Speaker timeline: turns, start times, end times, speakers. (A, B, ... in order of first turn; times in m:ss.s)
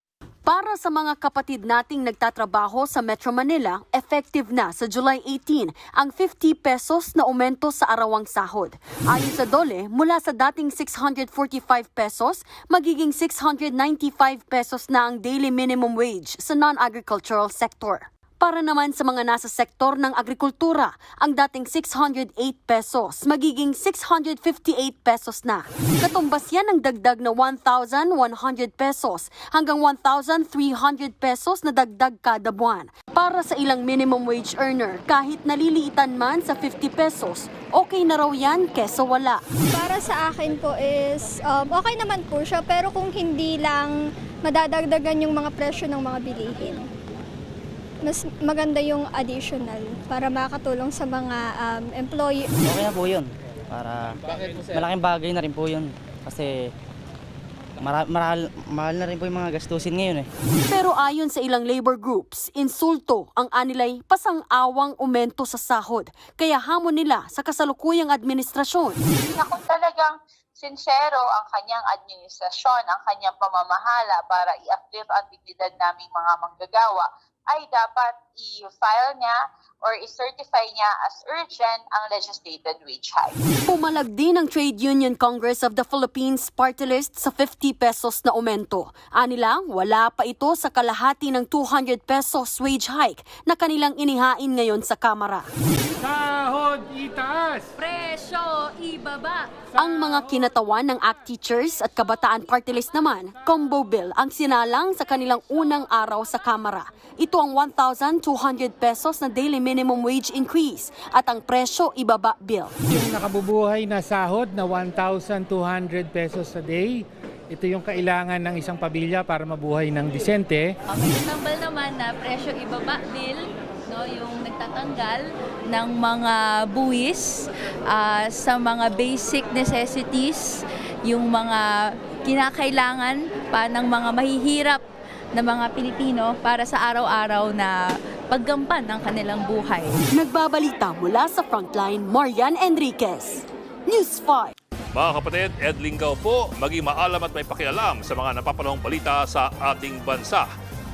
0:00.5-0:39.4 A
0:39.7-0:46.9 B
0:48.0-0:52.5 B
0:52.6-0:56.7 C
0:57.8-1:00.3 C
1:00.7-1:09.0 A
1:09.3-1:23.4 D
1:23.7-1:35.5 A
1:36.0-1:37.7 E
1:37.8-1:39.5 F
1:39.8-1:52.7 A
1:52.9-2:00.7 E
2:00.9-2:14.8 F
2:15.4-2:20.0 F
2:20.1-2:24.5 A
2:24.9-2:30.5 G